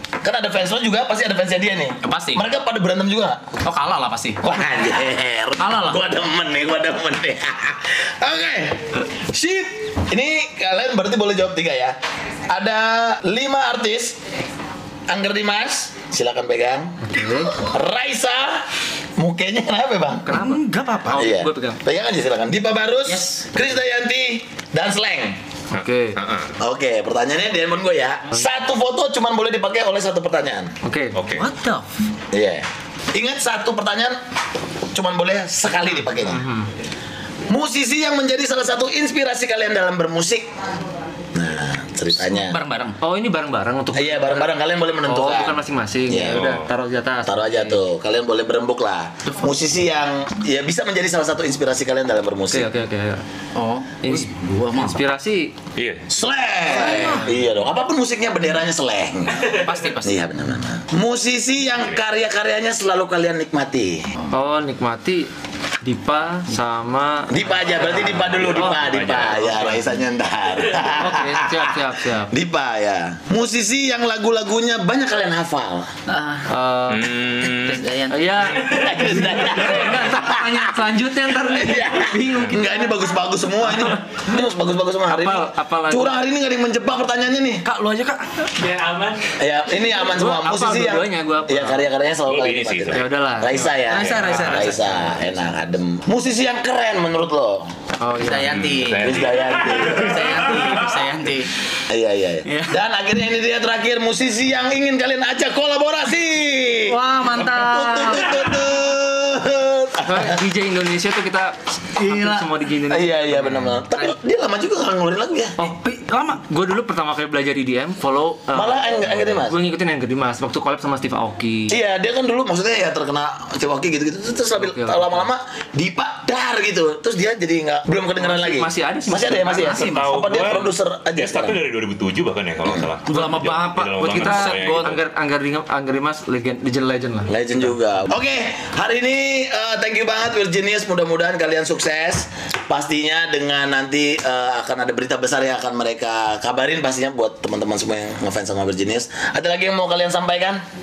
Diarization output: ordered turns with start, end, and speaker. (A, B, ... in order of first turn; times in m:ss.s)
0:00.2-0:03.4 A
0:02.0-0:02.4 B
0:03.6-0:04.4 B
0:04.4-0:12.0 A
0:05.6-0:06.0 B
0:12.5-0:14.2 A
0:15.1-0:20.3 A
0:17.0-0:17.6 C
0:20.2-0:21.8 C
0:20.3-0:21.3 B
0:21.1-0:25.4 A
0:23.0-0:23.6 B
0:25.7-0:26.2 C
0:25.7-0:26.5 D
0:26.6-0:30.7 A
0:30.8-0:31.2 C
0:31.1-0:31.5 D
0:31.3-0:31.8 B
0:32.3-0:34.2 A
0:34.9-0:36.4 A
0:36.2-0:36.7 C
0:37.5-0:40.5 A
0:41.3-0:42.6 A
0:42.2-0:43.0 B
0:43.0-0:44.5 C
0:43.9-0:46.4 A
0:45.0-0:47.8 C
0:46.2-0:46.7 D
0:47.2-0:52.7 A
0:49.2-0:49.5 B
0:52.5-0:53.2 C
0:53.5-0:55.0 B
0:54.0-0:55.5 C
0:55.8-0:56.2 D
0:56.1-1:04.0 A
0:56.7-0:57.2 B
0:56.7-0:57.4 C
0:59.5-1:00.2 B
1:04.3-1:05.3 C
1:05.8-1:09.7 C
1:07.3-1:15.9 A
1:08.0-1:09.9 D
1:10.9-1:12.3 C
1:16.1-1:16.4 B
1:16.5-1:17.1 C
1:16.9-1:17.9 D
1:17.6-1:18.3 B
1:18.1-1:22.3 C
1:18.5-1:27.6 A
1:19.5-1:20.3 B
1:22.1-1:23.0 B
1:23.7-1:24.4 C
1:25.1-1:26.2 C
1:27.6-1:29.2 B
1:29.3-1:37.7 A
1:30.1-1:31.8 C
1:32.3-1:34.3 D
1:32.9-1:35.2 C
1:33.8-1:35.0 B
1:38.0-1:38.6 C
1:38.1-1:41.5 B
1:38.4-1:39.7 D
1:39.0-1:40.6 A
1:41.9-1:50.4 A
1:42.5-1:42.7 B
1:46.9-1:48.6 B
1:50.0-1:54.1 C
1:52.0-1:52.5 B
1:52.9-1:55.6 A
1:55.6-1:56.4 B
1:56.4-2:01.8 C
1:58.5-1:59.6 A
2:01.7-2:11.6 A
2:04.6-2:05.3 C
2:08.2-2:09.8 C
2:09.5-2:10.1 B
2:09.6-2:15.0 D
2:13.1-2:15.0 B
2:14.0-2:17.8 C
2:17.3-2:30.6 A